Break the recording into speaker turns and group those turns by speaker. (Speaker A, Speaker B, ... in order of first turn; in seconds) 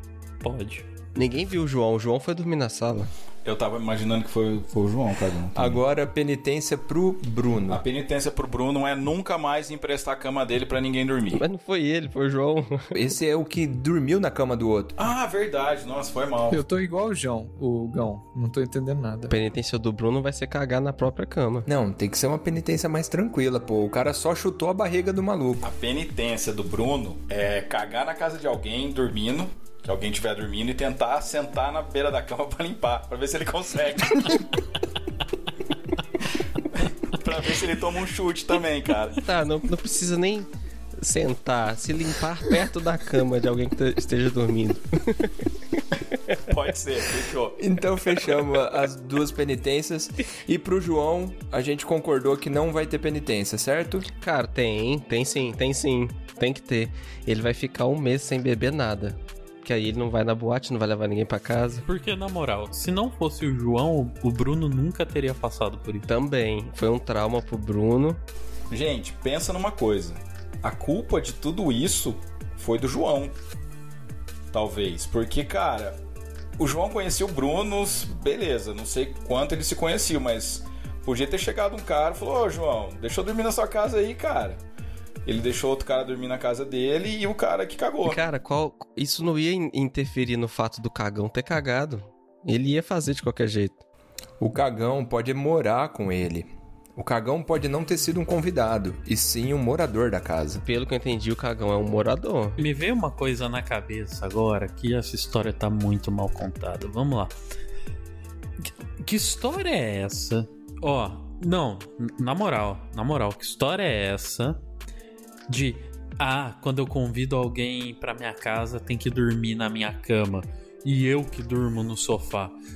Speaker A: 0.4-0.9, 61.8-66.1, 102.6-107.3, 108.6-114.6, 115.5-122.5
Speaker B: 1.1-3.1, 11.3-13.1, 19.3-21.7, 39.2-46.3, 54.2-61.8, 66.0-68.2, 88.0-93.8, 100.6-102.6
Speaker C: 3.4-5.8, 7.7-11.4, 15.0-16.6, 25.6-34.5, 36.7-39.2, 46.4-47.6, 68.7-73.3, 74.5-76.0, 76.6-84.6, 85.2-88.2
Speaker D: 5.5-7.8, 12.9-14.9, 21.6-25.7, 47.6-54.1, 94.4-100.6
Speaker E: 16.5-19.3